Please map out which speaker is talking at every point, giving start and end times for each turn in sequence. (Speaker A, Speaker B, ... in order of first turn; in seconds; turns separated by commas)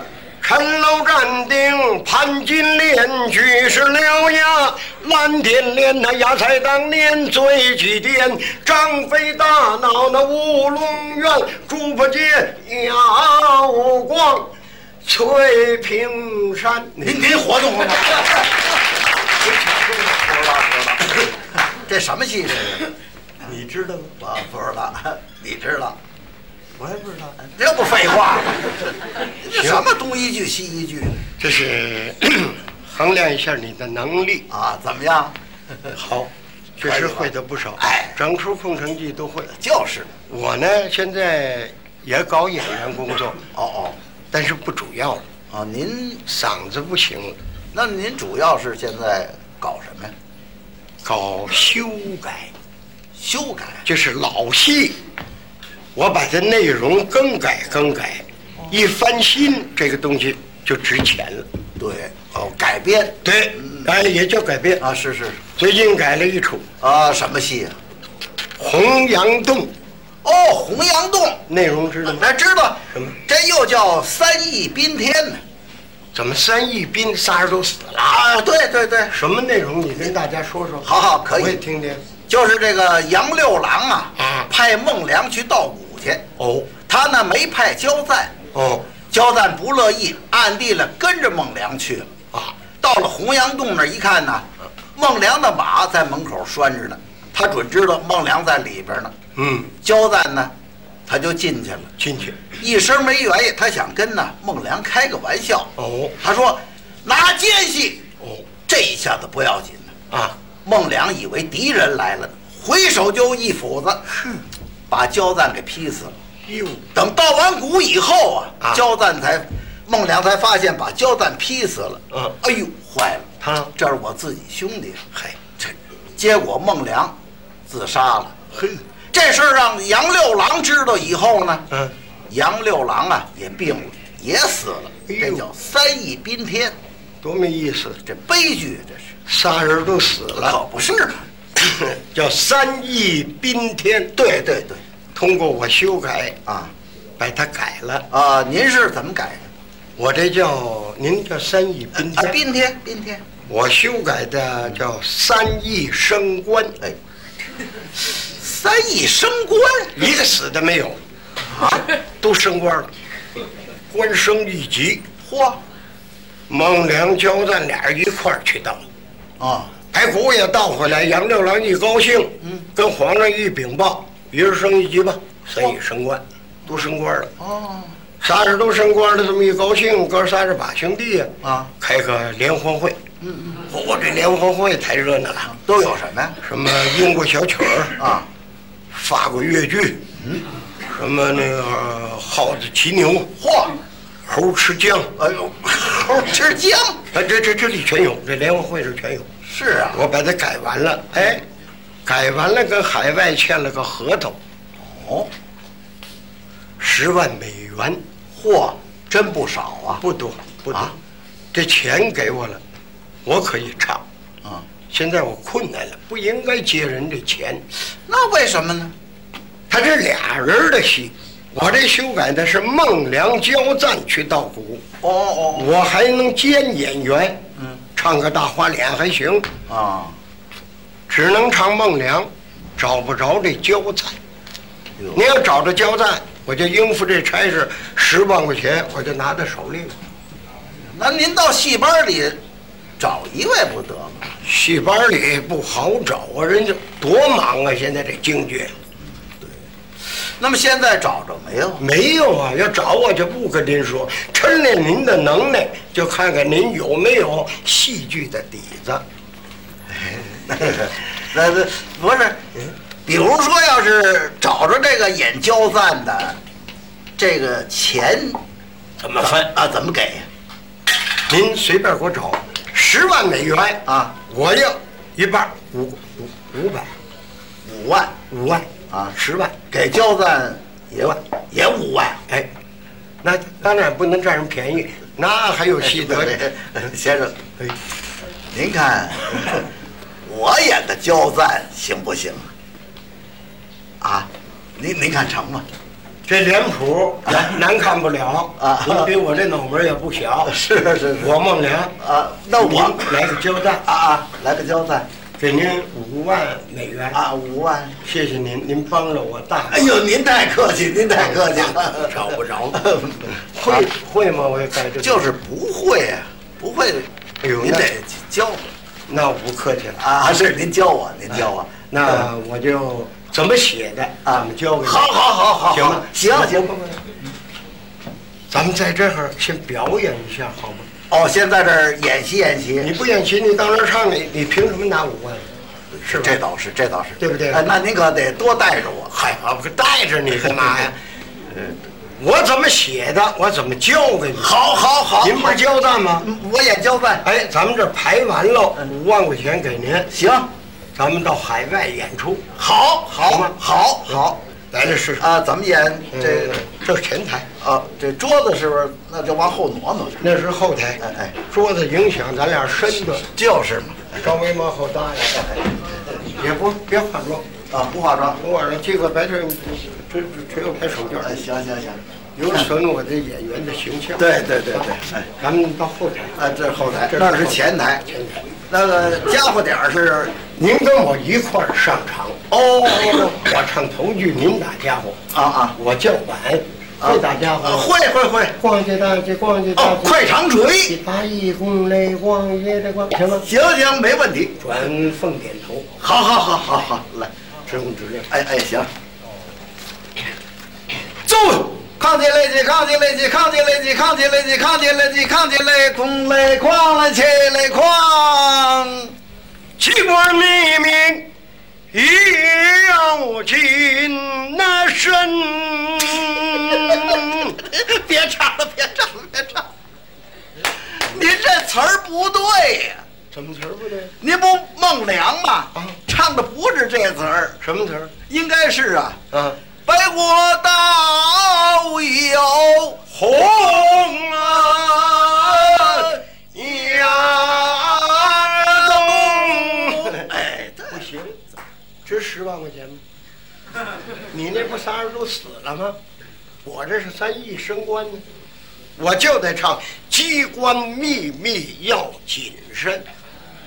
Speaker A: 0.4-14.5, Speaker A: 15.0-17.3, Speaker B: 17.0-18.7, Speaker B: 19.4-22.9, Speaker A: 19.5-20.0, Speaker A: 23.4-24.1, Speaker B: 24.2-26.0, Speaker A: 26.8-27.4, Speaker B: 27.4-31.2, Speaker A: 29.5-29.9, Speaker A: 31.4-34.5, Speaker B: 34.5-35.4, Speaker A: 35.9-39.5, Speaker B: 36.8-38.2, Speaker B: 39.5-40.1, Speaker A: 40.3-43.4, Speaker B: 43.5-44.0, Speaker A: 44.3-45.2, Speaker B: 45.5-46.2, Speaker A: 46.2-47.4, Speaker B: 47.7-50.1, Speaker A: 51.0-52.5, Speaker B: 53.1-53.8, Speaker A: 53.9-55.0, Speaker A: 56.0-61.5, Speaker B: 61.8-63.9, Speaker A: 63.2-64.8, Speaker B: 64.8-65.4, Speaker A: 65.6-66.7, Speaker B: 66.8-67.8, Speaker A: 68.6-69.7, Speaker B: 70.2-71.4, Speaker A: 71.5-72.3, Speaker B: 72.1-75.4, Speaker A: 72.9-73.2, Speaker A: 76.1-78.2, Speaker B: 78.0-79.1, Speaker A: 79.1-82.0, Speaker B: 80.8-81.6, Speaker B: 82.3-86.2, Speaker A: 84.2-84.5, Speaker A: 86.4-86.7, Speaker B: 86.8-88.3, Speaker A: 88.5-88.9, Speaker B: 89.1-92.1, Speaker B: 92.8-99.1, Speaker A: 99.3-99.7, Speaker B: 99.8-100.5, Speaker B: 101.1-101.9, Speaker A: 102.0-102.4, Speaker B: 102.6-108.0, Speaker A: 105.8-106.1, Speaker A: 108.2-108.5, Speaker B: 108.7-109.9, Speaker A: 110.1-110.3, Speaker B: 110.6-114.2, Speaker B: 114.9-116.2, Speaker A: 116.5-116.8, Speaker B: 116.9-127.2, Speaker A: 123.4-123.7, Speaker B: 127.7-128.6, Speaker B: 129.1-131.7, Speaker B: 132.3-136.8, Speaker A: 135.1-135.4, Speaker A: 137.2-138.0, Speaker B: 138.0-139.1, Speaker A: 139.3-140.6, Speaker B: 140.3-141.3, Speaker A: 141.6-144.5, Speaker B: 144.2-144.8, Speaker A: 145.1-146.4, Speaker B: 146.4-146.7, Speaker A: 147.2-148.1, Speaker B: 148.1-149.5, Speaker A: 150.0-152.4, Speaker B: 151.9-153.2, Speaker A: 153.5-156.8, Speaker B: 158.2-159.9, Speaker A: 159.9-161.0, Speaker B: 161.4-161.8, Speaker A: 161.6-162.9, Speaker A: 163.9-165.0, Speaker B: 165.2-165.6, Speaker A: 166.5-168.8, Speaker B: 169.4-169.7, Speaker A: 169.9-177.3, Speaker B: 172.4-172.7, Speaker B: 177.4-177.9, Speaker A: 178.2-183.0, Speaker B: 181.4-181.7, Speaker B: 183.2-183.6, Speaker A: 183.7-185.6, Speaker B: 185.5-186.4, Speaker A: 186.4-188.0, Speaker B: 187.9-188.3, Speaker A: 188.9-190.0, Speaker B: 190.2-190.4, Speaker A: 190.9-193.3, Speaker B: 193.4-193.8, Speaker A: 194.3-195.2, Speaker B: 195.2-197.0, Speaker A: 197.1-199.3, Speaker B: 199.4-200.0, Speaker A: 199.9-201.4, Speaker A: 202.1-204.4, Speaker B: 204.8-205.3, Speaker A: 206.8-208.0, Speaker B: 208.3-210.0, Speaker A: 210.0-210.9, Speaker A: 211.5-212.6, Speaker A: 213.2-214.0, Speaker A: 214.9-217.6, Speaker B: 218.1-218.9, Speaker A: 219.7-224.8, Speaker B: 225.0-225.7, Speaker A: 225.6-229.5, Speaker B: 227.6-227.8, Speaker B: 229.7-230.2, Speaker A: 231.1-234.2, Speaker A: 235.1-239.9, Speaker B: 240.9-242.4, Speaker B: 243.0-244.2, Speaker A: 244.4-248.7, Speaker B: 249.2-249.6, Speaker B: 250.4-251.8, Speaker A: 251.8-259.0, Speaker B: 259.9-262.4, Speaker B: 263.0-266.4, Speaker B: 267.2-268.4, Speaker A: 269.0-269.5, Speaker B: 269.2-270.3, Speaker A: 271.3-276.9, Speaker B: 273.9-274.1, Speaker B: 277.6-278.2, Speaker A: 278.3-279.6, Speaker B: 279.7-282.2, Speaker A: 283.2-286.4, Speaker B: 285.8-287.4, Speaker B: 288.5-289.7, Speaker B: 290.2-292.5, Speaker B: 294.0-295.6, Speaker A: 296.3-300.6, Speaker B: 297.2-297.6, Speaker B: 298.6-299.1, Speaker B: 300.4-301.4, Speaker A: 301.2-302.0, Speaker B: 302.0-303.2, Speaker A: 302.6-303.8, Speaker B: 303.8-305.1, Speaker A: 305.4-307.2, Speaker B: 307.1-308.0, Speaker A: 308.0-309.9, Speaker B: 309.7-313.8, Speaker A: 311.1-315.3, Speaker B: 315.0-318.7, Speaker A: 317.4-317.9, Speaker A: 319.1-320.0, Speaker B: 320.0-322.3, Speaker A: 321.9-325.1, Speaker B: 324.2-326.7, Speaker A: 325.7-327.0, Speaker A: 328.5-330.9, Speaker B: 331.1-332.9, Speaker A: 332.8-335.5, Speaker B: 335.9-339.5, Speaker A: 336.0-336.4, Speaker A: 337.2-337.6, Speaker A: 339.4-341.0, Speaker A: 342.2-344.5, Speaker B: 344.4-345.6, Speaker A: 345.2-346.3, Speaker B: 346.2-347.2, Speaker A: 347.2-350.1, Speaker B: 350.1-350.5, Speaker A: 350.9-352.5, Speaker B: 352.6-354.4, Speaker A: 353.2-353.6, Speaker A: 354.7-355.3, Speaker B: 355.1-356.6, Speaker A: 356.1-357.5, Speaker B: 357.6-360.2, Speaker A: 360.2-363.2, Speaker B: 361.0-361.3, Speaker B: 363.2-364.1, Speaker A: 364.1-365.7, Speaker A: 366.2-367.5, Speaker B: 367.7-368.4, Speaker A: 368.4-371.4, Speaker B: 371.2-372.7, Speaker A: 372.4-378.4, Speaker B: 374.2-375.3, Speaker B: 376.4-378.0, Speaker B: 378.7-380.5, Speaker A: 380.5-382.4, Speaker B: 382.5-383.5, Speaker A: 383.1-385.2, Speaker B: 385.3-385.8, Speaker A: 385.8-390.2, Speaker B: 387.0-388.5, Speaker B: 389.8-391.0, Speaker A: 390.9-393.4, Speaker B: 393.3-394.6, Speaker A: 394.6-395.9, Speaker B: 396.0-397.3, Speaker A: 397.7-398.3, Speaker B: 398.3-398.9, Speaker B: 401.3-409.1, Speaker A: 409.8-411.3, Speaker A: 411.9-417.6, Speaker B: 416.7-419.7, Speaker B: 420.7-423.0, Speaker A: 423.3-424.1, Speaker B: 424.2-427.6, Speaker A: 427.6-428.1, Speaker B: 428.3-429.2, Speaker A: 429.3-429.6, Speaker B: 429.9-433.0, Speaker A: 433.1-440.3, Speaker B: 434.4-436.2, Speaker B: 438.7-441.1, Speaker A: 440.9-441.4, Speaker A: 442.1-443.0, Speaker A: 444.3-446.0, Speaker A: 446.6-448.2, Speaker A: 449.0-453.1